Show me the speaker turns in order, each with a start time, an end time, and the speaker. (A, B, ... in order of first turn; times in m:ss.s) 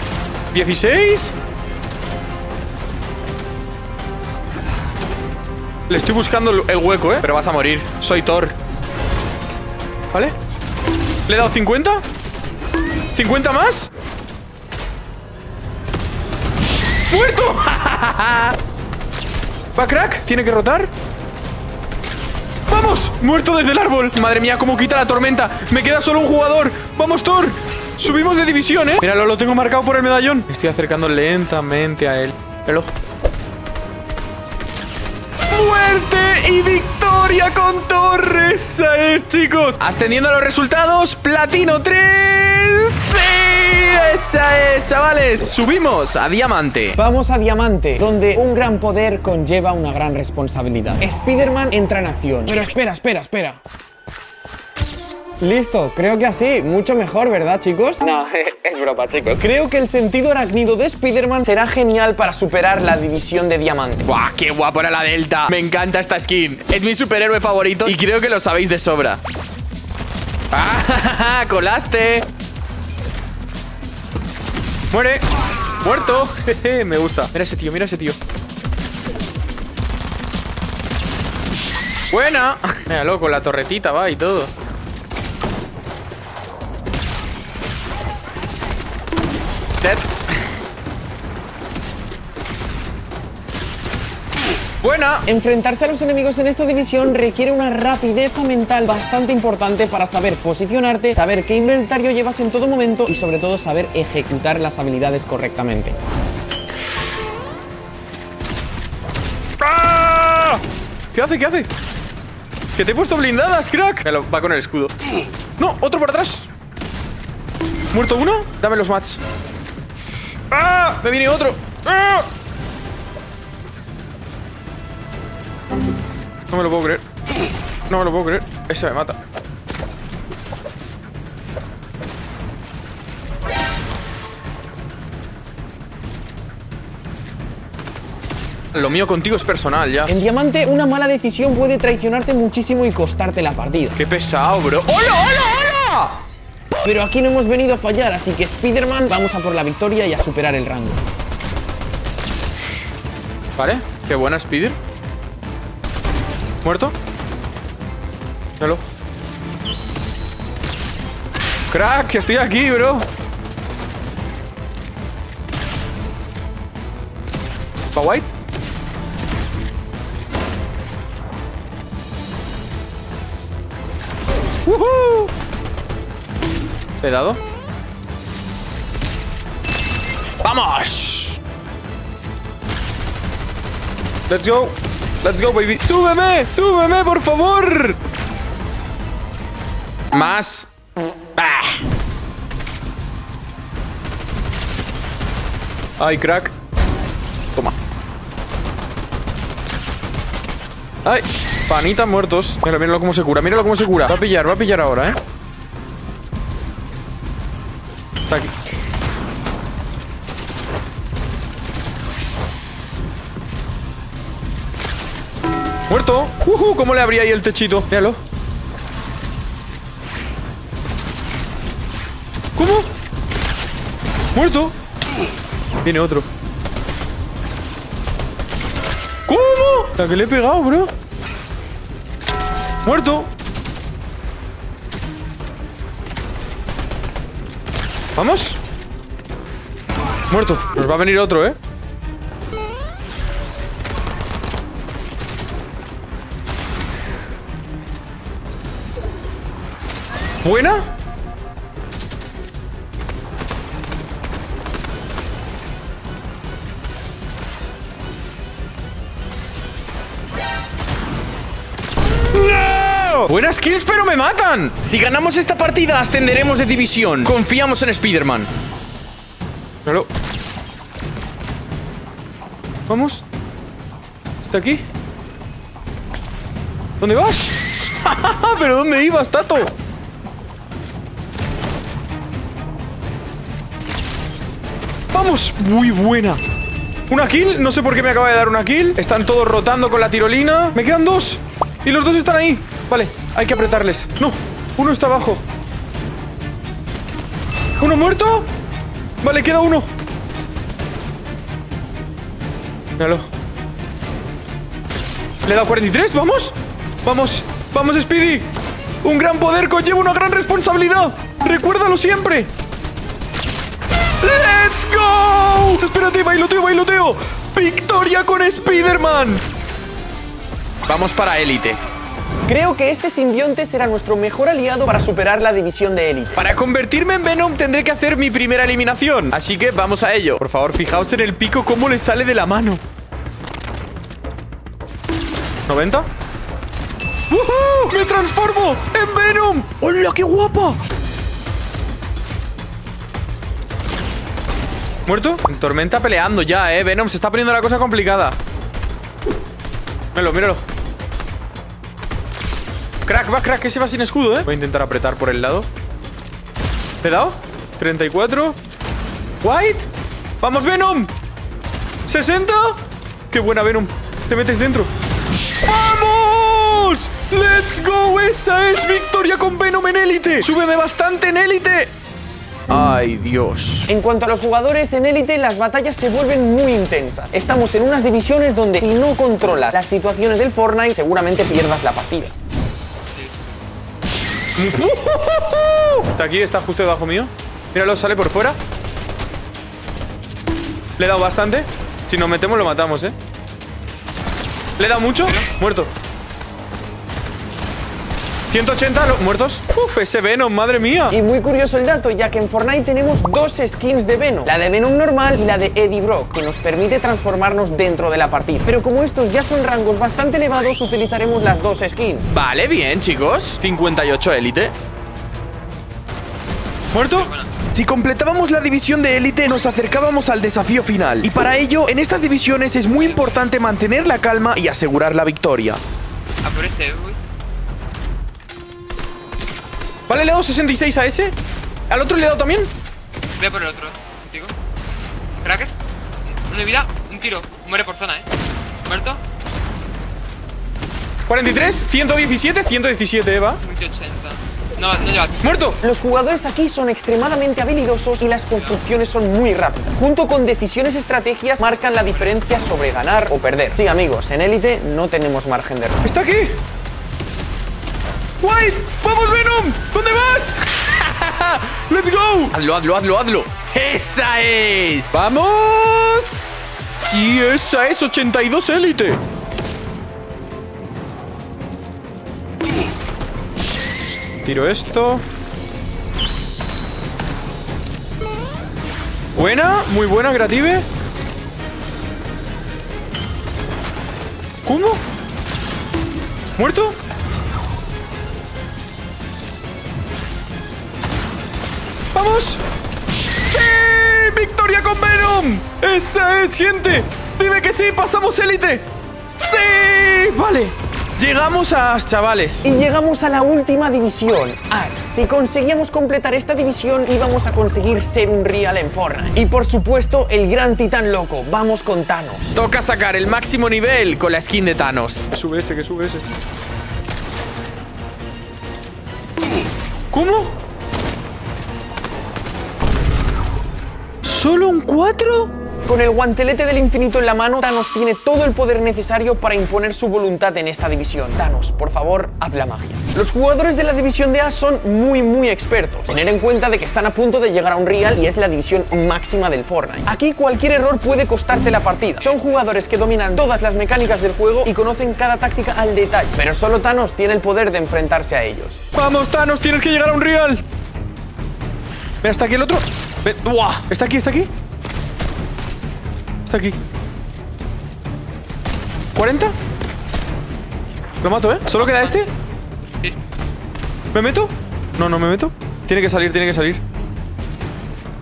0:00.5-0:01.3 A
0:05.9-0:08.6 A
0:11.3-0:12.0 A
0:13.1-0:13.9 A
0:17.1-0:18.6 A
0:19.8-0:20.9 A
0:22.7-0:32.9 A
0:35.5-0:47.0 A
0:47.0-0:53.6 B
0:55.4-1:04.1 B
1:04.0-1:09.2 A
1:10.5-1:12.3 A
1:14.9-1:15.2 A
1:15.8-1:18.2 A
1:22.1-1:24.5 A
1:29.8-1:30.3 A
1:34.8-1:35.2 A
1:35.2-1:46.0 B
1:49.6-1:50.6 A
1:51.1-1:51.7 A
1:52.7-1:54.9 A
1:55.6-1:56.5 A
1:57.9-1:59.2 A
2:00.5-2:02.3 A
2:06.5-2:07.0 A
2:07.9-2:09.2 A
2:18.7-2:20.1 A
2:20.1-2:24.0 B
2:24.0-2:26.2 A
2:26.8-2:31.0 B
2:33.6-2:34.8 A
2:36.6-2:36.9 A
2:41.7-2:43.1 A
2:47.9-2:48.3 A
2:54.6-2:55.3 A
2:57.0-2:57.4 A
3:00.4-3:01.4 A
3:04.3-3:08.0 A
3:10.1-3:10.7 A
3:11.4-3:11.8 A
3:16.0-3:16.5 A
3:21.0-3:25.2 A
3:28.2-3:28.5 A
3:35.9-3:38.2 A
3:42.6-3:42.9 A
3:44.3-3:44.7 A
3:45.8-3:46.3 A
3:49.3-3:50.9 A
3:52.8-3:53.3 A
3:58.2-3:58.6 A
4:00.3-4:01.6 A
4:10.4-4:10.9 A
4:22.3-4:28.5 A
4:32.9-4:33.2 A
4:34.4-4:34.8 A
4:37.0-4:39.7 A
4:45.1-4:46.4 A
4:47.1-4:55.4 A
4:57.8-4:58.5 A
4:59.2-4:59.9 A
5:03.0-5:03.3 A
5:05.4-5:08.5 A
5:09.0-5:12.5 A
5:14.2-5:19.4 A
5:20.9-5:21.8 A
5:22.4-5:26.4 B
5:26.3-5:32.8 A
5:35.7-5:36.1 A
5:37.3-5:40.8 A
5:45.1-5:48.4 A
5:50.1-5:50.6 A
5:53.0-5:55.7 A
5:57.0-5:58.6 A
5:59.4-5:59.9 A
6:00.4-6:01.1 A
6:02.1-6:04.9 A
6:05.6-6:11.9 A
6:12.7-6:13.9 A
6:13.9-6:22.3 B
6:24.6-6:28.6 A
6:31.0-6:33.1 A
6:34.8-6:35.9 A
6:38.5-6:41.2 A
6:41.1-6:52.3 B
6:52.3-6:54.7 A
6:56.9-7:05.8 A
6:57.0-6:57.5 C
7:02.9-7:03.4 C
7:06.4-7:07.2 C
7:10.1-7:11.3 A
7:11.9-7:12.7 A
7:13.4-7:14.5 C
7:15.4-7:15.7 C
7:16.3-7:18.3 C
7:18.8-7:19.2 C
7:21.3-7:23.6 A
7:23.6-7:25.8 C
7:25.4-7:25.8 A
7:25.8-7:36.1 B
7:31.7-7:32.6 C
7:36.0-7:36.6 A
7:38.4-7:49.2 A
7:54.4-7:55.2 A
7:59.4-8:00.8 A
8:04.6-8:05.0 A
8:06.6-8:07.0 A
8:12.1-8:12.6 A
8:13.4-8:22.6 A
8:22.6-8:32.5 B
8:32.6-8:36.3 A
8:40.1-8:40.5 A
8:44.2-8:45.5 A
8:45.8-9:08.8 B
9:08.9-9:10.6 A
9:12.2-9:14.5 A
9:16.4-9:16.8 A
9:19.1-9:19.5 A
9:21.2-9:22.3 A
9:21.7-9:22.3 C
9:24.1-9:26.8 A